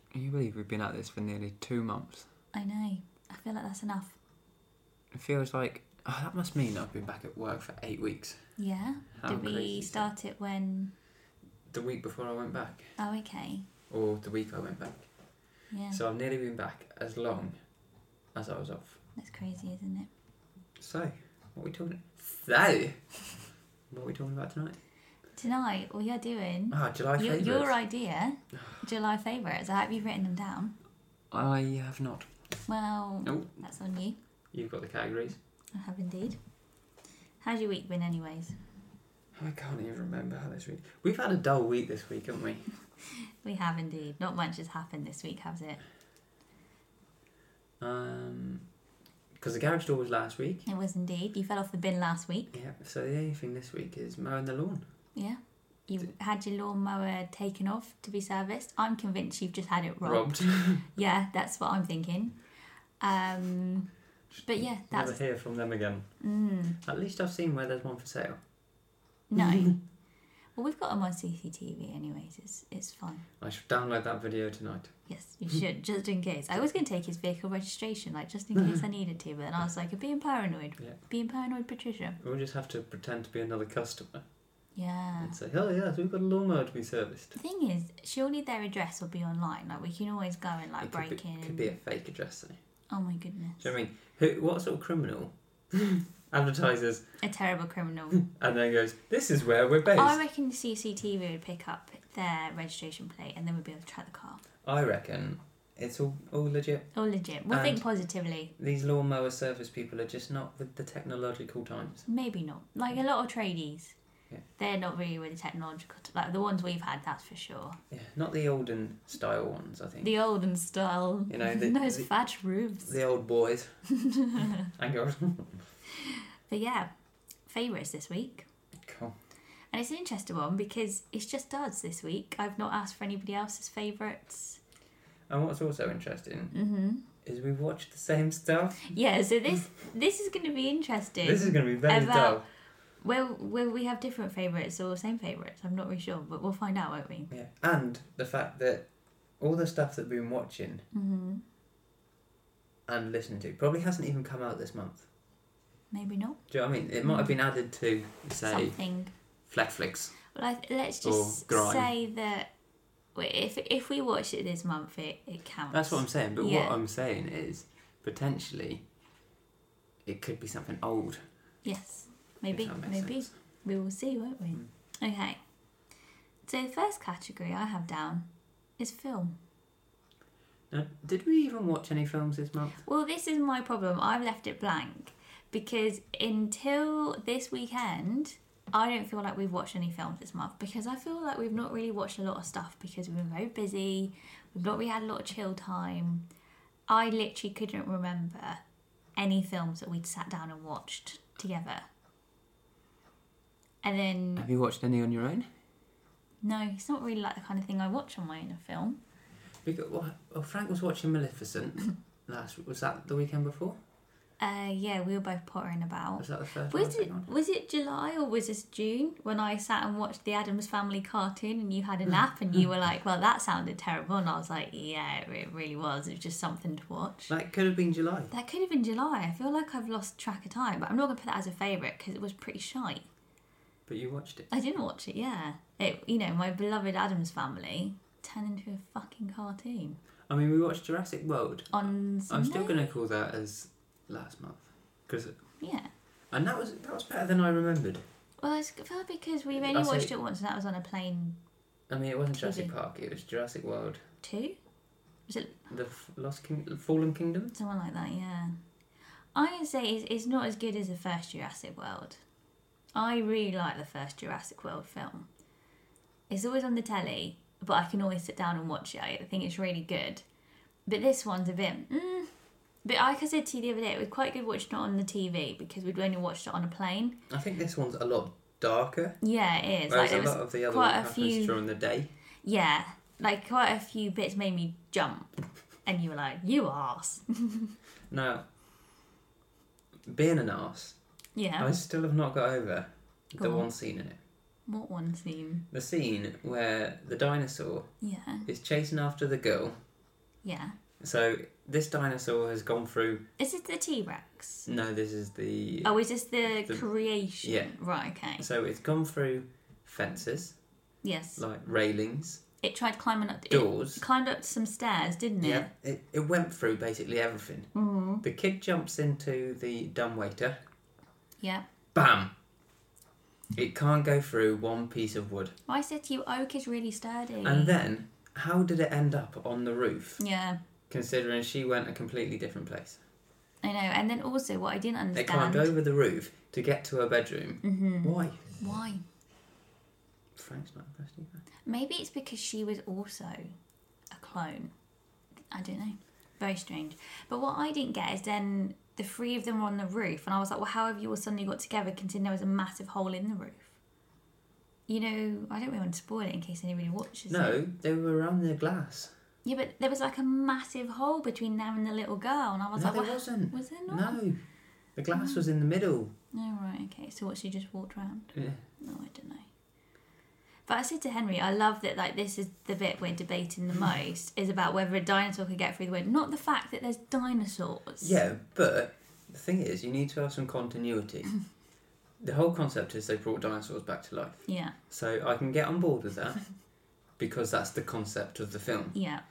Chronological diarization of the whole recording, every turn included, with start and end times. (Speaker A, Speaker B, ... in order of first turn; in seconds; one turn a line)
Speaker A: 0.1-2.3
Speaker B: 2.5-4.2
Speaker A: 5.1-8.4
Speaker B: 8.6-10.9
Speaker A: 9.2-10.1
Speaker A: 11.7-12.9
Speaker B: 13.0-13.7
Speaker A: 13.9-15.1
Speaker B: 15.7-16.0
Speaker A: 15.9-17.6
Speaker A: 18.4-19.0
Speaker B: 19.2-20.1
Speaker A: 20.8-23.0
Speaker A: 23.9-24.8
Speaker B: 25.4-30.7
Speaker A: 26.7-27.7
Speaker A: 31.3-32.3
Speaker B: 32.7-34.2
Speaker A: 33.2-33.5
Speaker A: 34.5-35.4
Speaker B: 35.7-36.4
Speaker B: 37.4-38.6
Speaker A: 39.4-42.7
Speaker B: 43.1-45.8
Speaker A: 47.8-48.7
Speaker A: 49.4-50.7
Speaker B: 50.7-52.5
Speaker A: 52.5-54.8
Speaker B: 55.1-62.4
Speaker A: 60.0-60.9
Speaker B: 63.0-63.9
Speaker B: 64.4-65.2
Speaker A: 64.9-66.1
Speaker B: 66.2-66.8
Speaker A: 66.8-68.4
Speaker B: 69.3-69.8
Speaker A: 69.4-69.8
Speaker B: 70.6-73.2
Speaker A: 73.4-74.9
Speaker B: 75.1-82.2
Speaker A: 82.2-84.2
Speaker B: 84.8-85.4
Speaker A: 85.2-87.4
Speaker B: 87.4-91.8
Speaker A: 90.8-92.6
Speaker B: 92.9-93.7
Speaker A: 93.6-97.0
Speaker B: 97.2-98.2
Speaker A: 98.1-100.2
Speaker B: 100.0-104.4
Speaker A: 104.6-106.9
Speaker B: 106.9-108.5
Speaker A: 107.5-107.8
Speaker A: 108.6-112.1
Speaker B: 112.1-114.0
Speaker B: 114.6-117.8
Speaker A: 117.9-120.1
Speaker B: 120.0-122.9
Speaker A: 121.3-122.1
Speaker A: 122.8-123.8
Speaker B: 123.9-124.7
Speaker A: 124.7-125.6
Speaker B: 125.9-126.9
Speaker B: 127.5-128.5
Speaker A: 128.8-129.1
Speaker B: 129.7-134.6
Speaker A: 135.3-136.6
Speaker B: 136.5-137.0
Speaker A: 137.2-138.9
Speaker B: 138.9-142.4
Speaker A: 141.2-142.5
Speaker B: 143.0-147.3
Speaker A: 147.3-148.9
Speaker A: 149.4-150.9
Speaker B: 150.9-151.4
Speaker A: 152.9-155.1
Speaker B: 155.9-156.4
Speaker A: 156.5-158.8
Speaker B: 157.0-157.3
Speaker B: 158.4-159.1
Speaker A: 159.5-160.2
Speaker B: 160.3-162.5
Speaker A: 161.0-161.9
Speaker B: 163.2-166.8
Speaker A: 165.7-168.8
Speaker A: 170.1-171.2
Speaker B: 171.6-175.4
Speaker A: 172.5-173.3
Speaker B: 176.5-178.2
Speaker B: 178.8-179.3
Speaker A: 180.7-182.8
Speaker B: 182.8-196.2
Speaker B: 196.9-198.6
Speaker B: 199.2-201.9
Speaker B: 203.8-204.5
Speaker A: 204.4-205.5
Speaker B: 206.4-209.0
Speaker A: 209.6-213.8
Speaker B: 214.4-227.3
Speaker A: 216.2-217.3
Speaker A: 227.3-228.3
Speaker B: 228.3-233.1
Speaker A: 233.9-234.5
Speaker B: 234.5-240.0
Speaker A: 240.3-245.4
Speaker B: 241.7-242.9
Speaker B: 245.6-245.9
Speaker A: 246.3-248.0
Speaker B: 248.4-251.4
Speaker A: 249.5-250.1
Speaker A: 251.9-254.0
Speaker B: 252.4-252.7
Speaker B: 254.2-254.6
Speaker B: 255.3-255.6
Speaker A: 255.7-257.6
Speaker B: 257.5-258.6
Speaker B: 259.3-262.2
Speaker B: 262.9-265.3
Speaker B: 266.3-270.2
Speaker B: 270.9-272.3
Speaker B: 272.8-277.2
Speaker A: 277.3-279.2
Speaker B: 279.2-281.6
Speaker A: 279.9-282.1
Speaker B: 282.4-285.3
Speaker B: 285.9-287.7
Speaker A: 288.1-288.4
Speaker A: 290.1-291.0
Speaker B: 291.4-291.7
Speaker A: 291.6-294.2
Speaker B: 293.4-293.7
Speaker B: 294.7-295.6
Speaker A: 295.7-297.9
Speaker B: 298.0-298.5
Speaker A: 298.5-299.8
Speaker B: 300.4-300.8
Speaker A: 301.0-303.2
Speaker B: 303.4-304.7
Speaker A: 304.7-306.0
Speaker B: 305.9-308.4
Speaker A: 307.4-307.8
Speaker A: 308.4-310.6
Speaker B: 311.0-311.4
Speaker A: 311.4-312.4
Speaker B: 312.6-315.7
Speaker A: 313.5-314.0
Speaker A: 315.4-317.7
Speaker B: 317.8-318.2
Speaker A: 318.2-320.6
Speaker A: 321.9-322.3
Speaker A: 323.5-325.6
Speaker B: 325.7-327.8
Speaker A: 327.4-330.2
Speaker B: 330.2-330.6
Speaker A: 330.9-333.0
Speaker B: 333.6-335.7
Speaker A: 335.1-338.4
Speaker B: 337.6-339.0
Speaker A: 340.4-341.4
Speaker B: 341.7-343.5
Speaker B: 344.1-344.7
Speaker B: 345.5-353.8
Speaker B: 354.9-357.6
Speaker A: 357.3-359.1
Speaker B: 359.4-364.2
Speaker A: 362.8-364.4
Speaker A: 365.0-366.1
Speaker B: 365.1-365.4
Speaker B: 366.3-369.5
Speaker A: 368.3-368.6
Speaker B: 370.7-378.2
Speaker A: 378.0-381.3
Speaker A: 382.2-386.4
Speaker B: 384.5-384.7
Speaker A: 387.2-389.0
Speaker B: 388.9-389.2